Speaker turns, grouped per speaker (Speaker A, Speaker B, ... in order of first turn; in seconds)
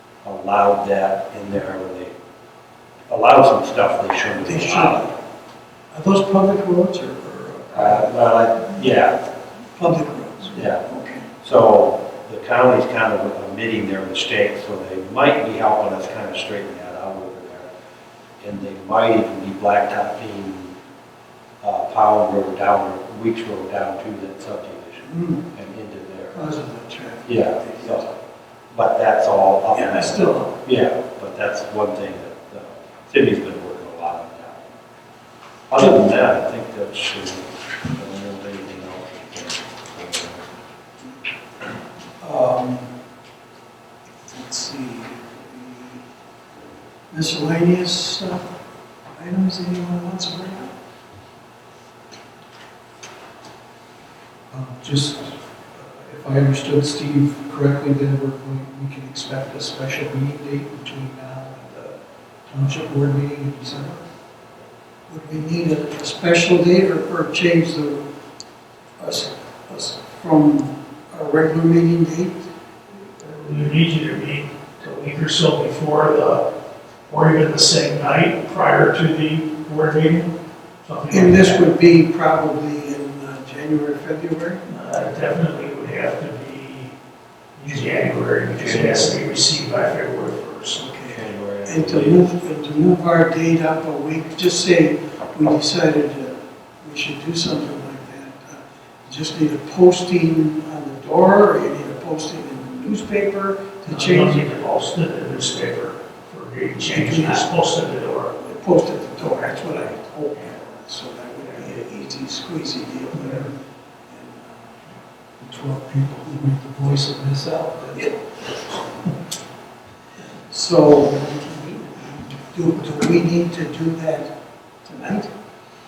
Speaker A: 0.2-2.1, 3.1-5.0, 7.7-9.2, 10.5-10.8, 11.4-17.7, 18.4-20.7, 21.6-26.4, 27.2-28.1, 28.7-34.6, 35.7-40.4, 88.5-89.1, 91.0-92.9
Speaker B: 4.4-5.1, 5.9-8.2, 9.7-11.3, 25.1-25.4, 26.3-28.1, 29.7-30.5, 42.2-42.9, 44.3-46.0, 47.1-48.4, 49.1-50.7, 65.1-68.0, 69.0-72.5, 81.1-84.6, 90.8-104.4, 106.9-107.5, 108.3-113.5, 114.1-114.9, 120.2-124.3, 124.8-125.3
Speaker C: 54.5-61.9, 62.5-64.0, 115.4-118.1
Speaker D: 73.0-76.4, 77.1-80.3, 80.8-81.6, 84.7-86.9, 87.6-90.8, 103.9-108.3, 113.1-113.5